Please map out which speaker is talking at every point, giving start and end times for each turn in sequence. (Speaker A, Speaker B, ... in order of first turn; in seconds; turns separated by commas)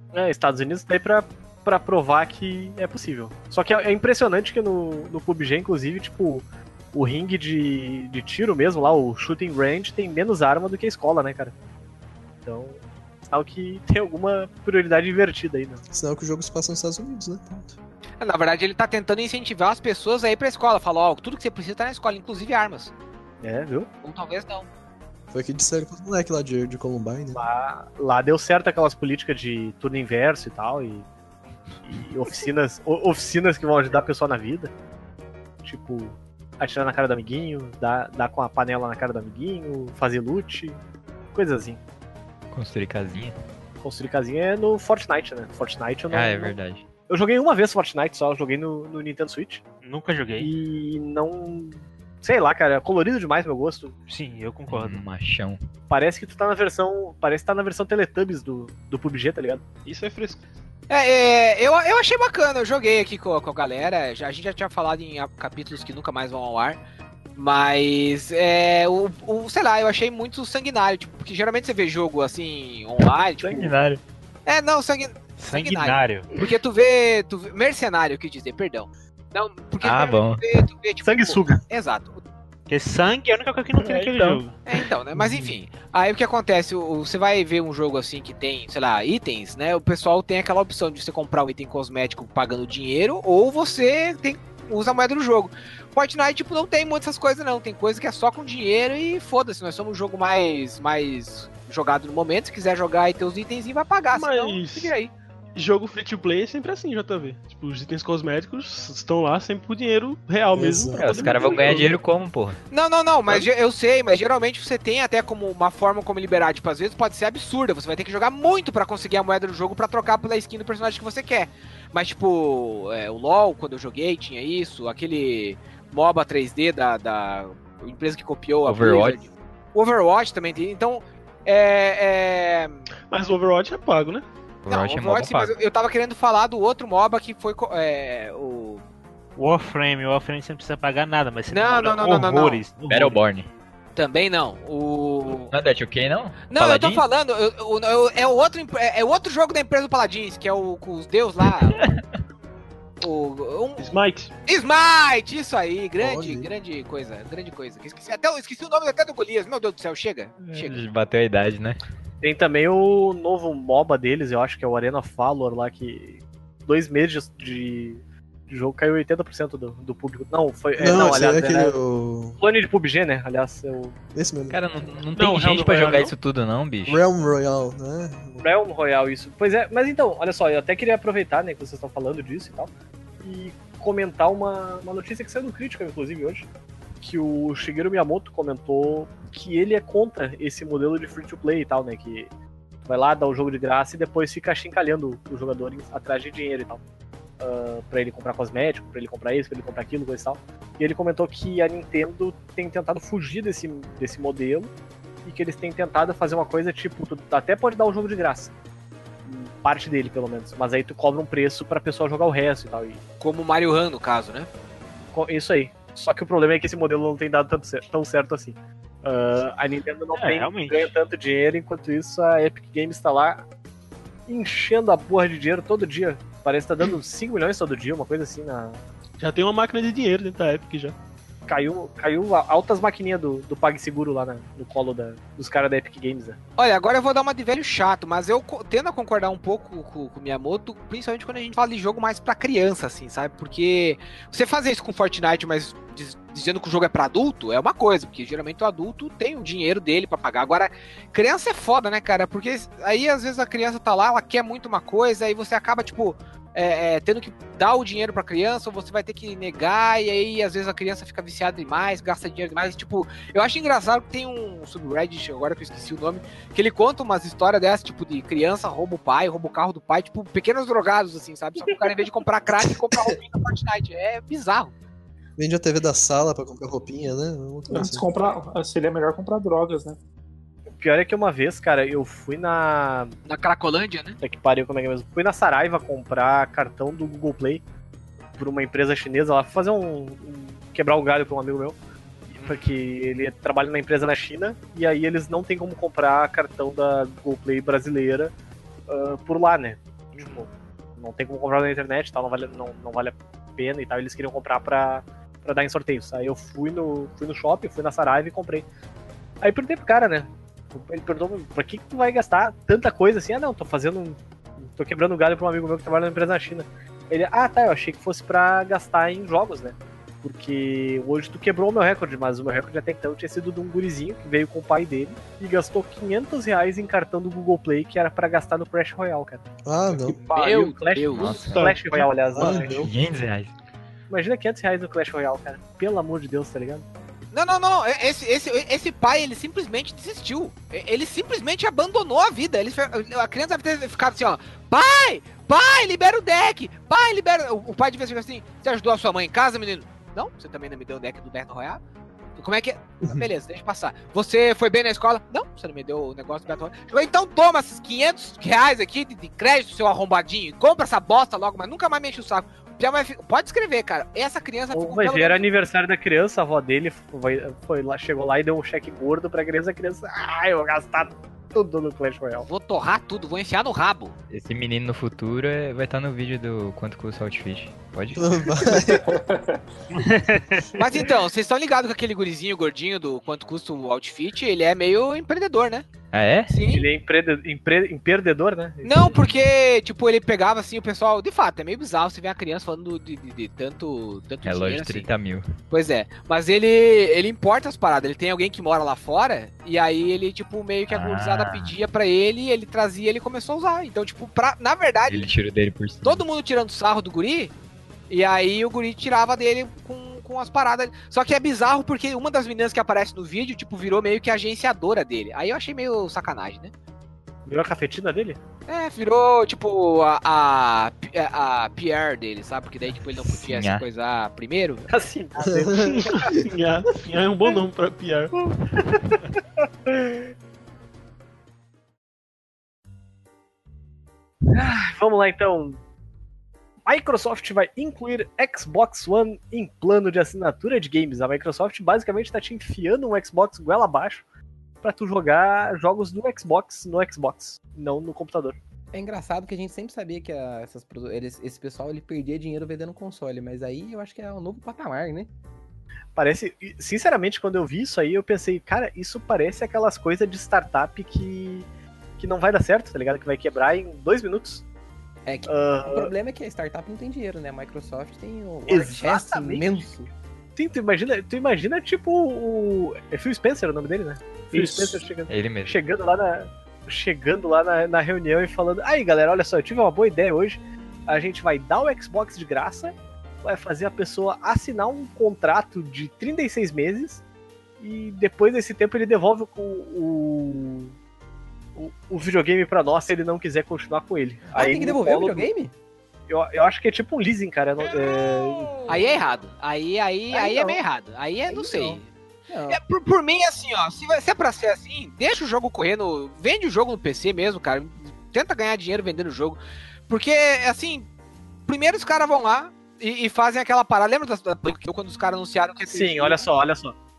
Speaker A: 0.1-11.6, Speaker A: 12.4-15.8, Speaker B: 15.9-17.8, Speaker C: 18.2-22.9, Speaker A: 23.4-23.9, Speaker C: 24.0-24.7, Speaker B: 25.3-27.4, Speaker A: 27.3-31.1, Speaker A: 31.9-34.7, Speaker A: 35.6-40.8, Speaker A: 41.3-41.8, Speaker D: 42.5-43.4, Speaker A: 43.8-46.5, Speaker D: 46.1-46.8, Speaker A: 47.1-49.6, Speaker E: 49.8-50.5, Speaker A: 50.4-54.0, Speaker E: 54.1-55.0, Speaker D: 54.7-55.6, Speaker A: 55.9-59.6, Speaker F: 59.9-60.4, Speaker C: 60.9-66.8, Speaker C: 67.4-73.7, Speaker D: 73.4-74.0, Speaker C: 74.5-82.2, Speaker E: 75.4-76.3, Speaker D: 79.8-80.4, Speaker A: 81.0-81.6, Speaker E: 82.7-84.6, Speaker F: 83.8-84.4, Speaker C: 84.7-105.1, Speaker F: 104.1-104.9, Speaker F: 105.5-111.9, Speaker B: 110.5-111.7, Speaker D: 111.0-112.6, Speaker C: 112.7-132.9, Speaker D: 128.7-129.2, Speaker F: 133.1-134.3, Speaker D: 134.6-135.5, Speaker C: 134.7-138.8, Speaker E: 139.4-143.2, Speaker C: 141.5-142.6, Speaker D: 142.9-143.5, Speaker C: 144.0-145.5, Speaker D: 145.5-147.0, Speaker C: 146.5-151.9, Speaker C: 153.0-153.9, Speaker F: 153.8-154.3, Speaker C: 154.5-160.8, Speaker B: 156.0-156.5, Speaker D: 160.5-161.8, Speaker A: 162.2-171.7, Speaker B: 170.8-172.4, Speaker A: 172.4-174.0, Speaker B: 174.1-174.6, Speaker D: 174.5-177.0, Speaker F: 175.2-176.1, Speaker B: 176.9-178.5, Speaker A: 178.4-186.5, Speaker A: 187.0-192.3, Speaker A: 192.9-196.8, Speaker A: 197.4-204.7, Speaker A: 205.2-208.5, Speaker A: 209.2-213.0, Speaker C: 213.2-214.5, Speaker A: 215.1-223.4, Speaker E: 220.1-220.9, Speaker A: 224.3-228.8, Speaker F: 229.2-230.9, Speaker A: 231.5-236.4, Speaker C: 236.6-274.7, Speaker B: 275.4-278.1, Speaker G: 277.7-280.0, Speaker A: 280.8-283.1, Speaker C: 283.3-284.2, Speaker A: 284.2-287.6, Speaker A: 288.4-291.8, Speaker A: 292.3-298.3, Speaker C: 292.4-292.8, Speaker A: 298.9-308.7, Speaker C: 300.2-300.4, Speaker A: 309.4-329.5, Speaker B: 329.6-330.2, Speaker G: 330.0-330.8, Speaker A: 330.3-332.9, Speaker C: 330.4-331.4, Speaker D: 331.1-331.6, Speaker F: 331.4-332.0, Speaker B: 332.3-332.9, Speaker D: 332.8-333.5, Speaker A: 334.1-336.9, Speaker C: 337.3-351.8, Speaker C: 352.4-365.4, Speaker A: 364.7-372.5, Speaker C: 372.5-374.1, Speaker D: 374.3-378.3, Speaker B: 378.1-379.1, Speaker G: 378.7-379.6, Speaker E: 380.0-380.6, Speaker C: 380.8-385.9, Speaker D: 386.1-386.5, Speaker C: 386.5-386.9, Speaker A: 386.7-389.2, Speaker C: 388.8-395.1, Speaker D: 394.4-395.5, Speaker C: 395.7-405.3, Speaker D: 400.9-401.7, Speaker D: 405.1-406.2, Speaker C: 406.0-407.5, Speaker C: 408.1-416.7, Speaker A: 417.5-418.4, Speaker C: 418.7-424.9, Speaker D: 423.3-423.9, Speaker A: 424.9-426.3, Speaker B: 425.4-426.1, Speaker F: 425.9-428.3, Speaker A: 428.4-429.2, Speaker A: 429.9-430.3, Speaker A: 434.5-435.8, Speaker A: 436.9-444.2, Speaker A: 444.8-448.6, Speaker H: 448.9-455.3, Speaker A: 456.2-461.7, Speaker A: 462.2-464.6, Speaker H: 465.3-470.1, Speaker A: 465.5-466.1, Speaker A: 468.7-469.9, Speaker A: 470.6-487.2, Speaker G: 474.5-475.1, Speaker D: 475.3-475.8, Speaker A: 487.8-490.9, Speaker A: 491.8-495.5, Speaker H: 494.5-495.7, Speaker A: 496.3-498.9, Speaker C: 498.9-502.1, Speaker H: 500.3-500.8, Speaker H: 501.5-502.8, Speaker C: 502.7-511.1, Speaker C: 511.7-516.5, Speaker A: 515.9-517.0